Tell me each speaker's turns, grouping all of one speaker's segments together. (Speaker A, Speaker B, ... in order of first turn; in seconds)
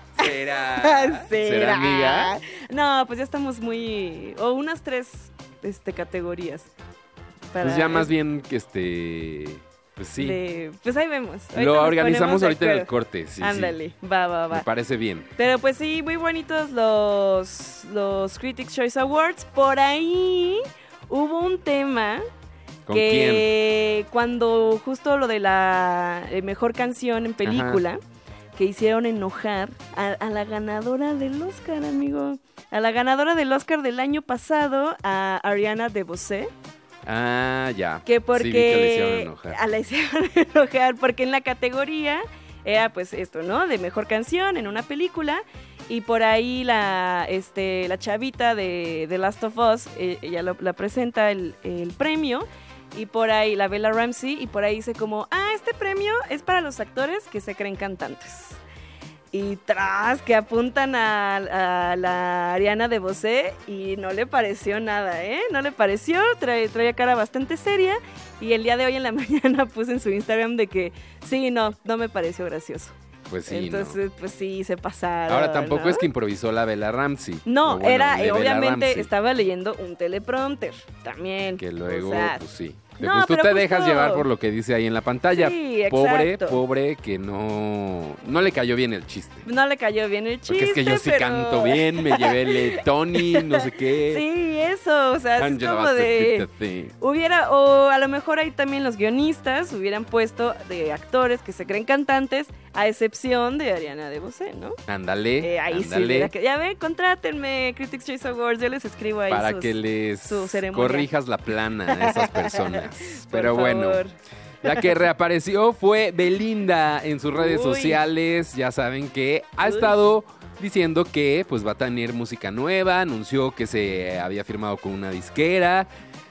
Speaker A: 0.2-2.4, 7.6-10.4, 11.6-13.8, 14.5-15.3, 22.9-23.4, 27.4-27.8, 37.1-39.6, 73.3-74.0, 75.3-79.1, 81.6-89.5, 90.5-94.2, 95.4-96.9, 104.9-106.3, 109.3-114.0, 114.6-125.9
Speaker B: 0.2-6.7, 7.5-8.1, 10.2-14.7, 15.4-22.2, 22.9-28.0, 28.6-36.5, 38.1-58.6, 59.3-73.0, 73.5-76.1, 77.5-82.4, 83.0-84.3, 85.3-86.6, 89.5-96.5, 97.0-104.8, 105.4-111.1, 112.0-114.2, 117.4-118.0, 119.6-120.0